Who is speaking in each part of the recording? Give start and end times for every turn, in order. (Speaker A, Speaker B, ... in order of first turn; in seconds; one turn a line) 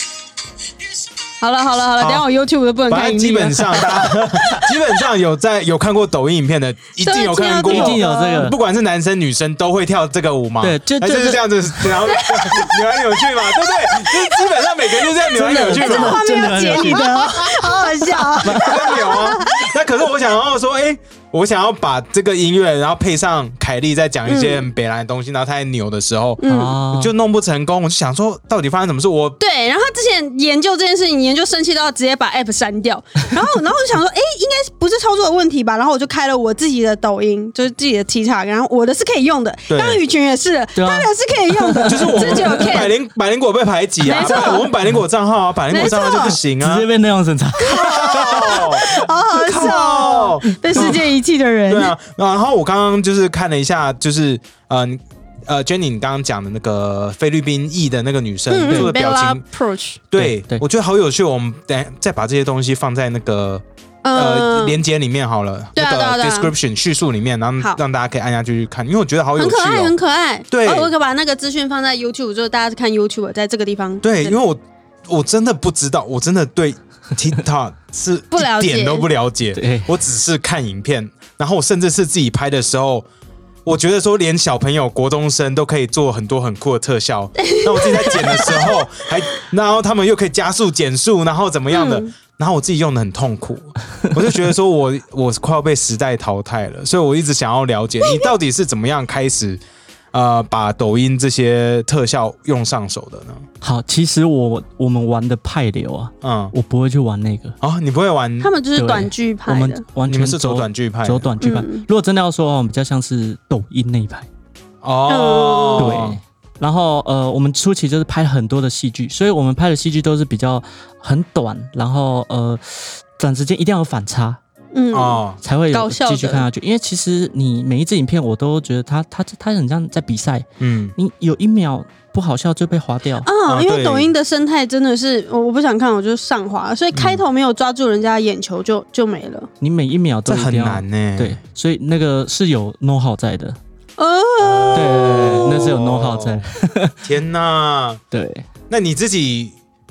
Speaker A: 1.4-4.8
Speaker B: 2.0-2.3
Speaker B: 2.9-17.1
Speaker A: 7.0-8.5
Speaker C: 7.7-8.6
Speaker C: 10.6-12.0
Speaker A: 12.1-14.5
Speaker A: 15.1-19.7
Speaker C: 15.3-19.2
Speaker B: 18.4-29.4
Speaker A: 24.3-24.7
Speaker A: 26.4-26.8
Speaker C: 26.4-27.1
Speaker A: 29.4-42.9
Speaker B: 39.7-40.0
Speaker C: 40.8-42.7
Speaker B: 41.9-46.9
Speaker A: 44.0-44.7
Speaker C: 44.5-45.0
Speaker A: 45.7-46.4
Speaker C: 46.6-49.0
Speaker A: 47.6-51.9
Speaker B: 47.7-51.1
Speaker C: 50.5-51.0
Speaker B: 51.7-59.4
Speaker A: 58.5-60.0
Speaker B: 60.1-70.0
Speaker C: 60.2-60.6
Speaker A: 64.0-64.8
Speaker A: 65.8-66.5
Speaker A: 69.4-74.4
Speaker B: 70.5-70.9
Speaker B: 74.0-83.1
Speaker A: 78.3-79.1
Speaker C: 79.5-79.9
Speaker B: 83.7-99.6
Speaker A: 87.4-88.9
Speaker A: 91.7-92.1
Speaker A: 98.0-98.3
Speaker B: 100.1-103.5
Speaker C: 103.6-107.6
Speaker B: 106.2-106.5
Speaker B: 107.6-108.5
Speaker A: 108.4-109.8
Speaker C: 108.8-114.3
Speaker B: 110.1-111.3
Speaker A: 111.4-111.9
Speaker B: 114.8-116.2
Speaker A: 115.1-116.0
Speaker C: 115.8-124.4
Speaker A: 124.7-126.5
Speaker B: 124.9-125.4
Speaker C: 125.4-133.3
Speaker B: 130.6-130.9
Speaker A: 133.2-139.5
Speaker B: 133.4-134.1
Speaker B: 136.9-137.2
Speaker C: 139.6-143.6
Speaker B: 140.3-141.4
Speaker A: 144.0-145.3
Speaker B: 144.4-146.5
Speaker C: 144.7-146.9
Speaker B: 147.0-148.0
Speaker C: 148.1-148.5
Speaker B: 148.7-149.6